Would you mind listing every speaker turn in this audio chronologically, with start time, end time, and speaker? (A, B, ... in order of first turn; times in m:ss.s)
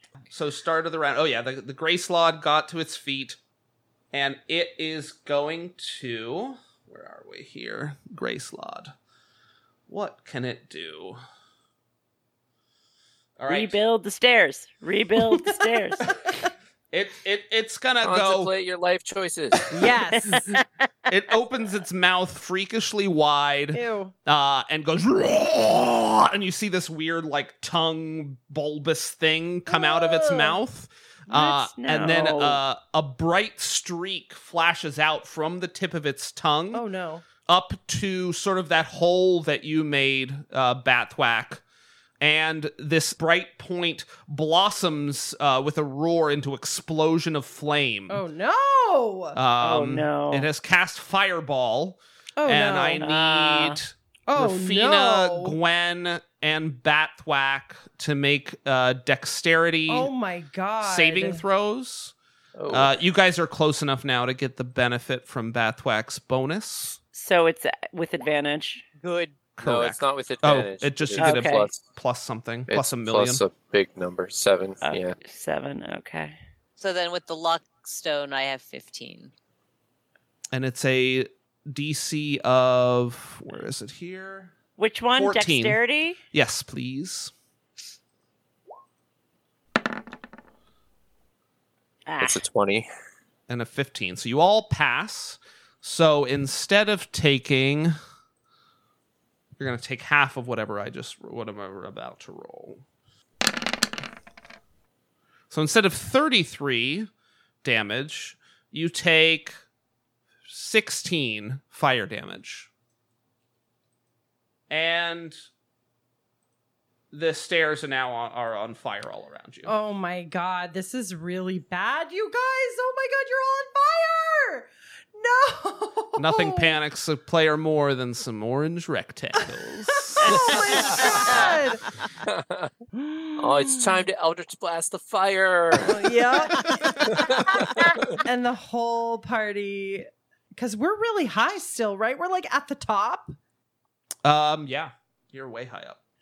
0:00.3-0:03.4 A
0:04.1-0:08.9 A
0:09.9-0:11.2 A
0:13.4-0:13.8 A
0:13.5-0:16.1 B
0:16.9-0:18.5 A
0:18.0-0:19.8 C
0:19.7-0:20.5 D
0:20.1-0:20.6 B
0:21.1-0:36.8 A
0:23.7-0:24.1 D
0:29.7-0:30.6 D
0:31.3-0:32.6 B
0:36.7-0:37.2 D
0:37.5-0:41.6 A
0:42.2-0:48.2 A
0:48.1-0:49.4 D
0:49.4-1:00.1 A
0:49.6-0:50.5 B
0:52.4-0:53.0 D
0:53.0-0:53.8 B
0:54.3-0:55.6 D
0:59.9-1:01.4 D
1:00.8-1:02.1 A
1:02.6-1:03.0 C
1:02.7-1:07.0 A
1:07.1-1:08.8 B
1:09.0-1:09.4 E
1:09.6-1:13.4 A
1:09.6-1:11.8 C
1:11.2-1:11.7 B
1:12.7-1:15.2 C
1:14.8-1:16.4 B
1:16.8-1:19.3 E
1:20.5-1:24.5 A
1:24.8-1:26.2 B
1:25.2-1:25.8 A
1:26.3-1:27.3 A
1:32.1-1:32.4 B
1:32.2-1:32.9 C
1:33.5-1:37.9 A
1:39.6-1:42.8 A
1:45.5-1:47.1 A
1:47.6-1:49.6 A
1:50.5-1:52.7 A
1:54.7-1:55.4 A
1:57.1-1:59.7 A
1:59.7-2:06.7 D
2:06.2-2:11.1 A
2:10.1-2:11.9 D
2:10.9-2:11.4 B
2:10.9-2:11.3 C
2:12.2-2:12.7 C
2:12.9-2:14.0 D
2:13.4-2:18.2 C
2:15.8-2:23.4 D
2:24.2-2:26.0 A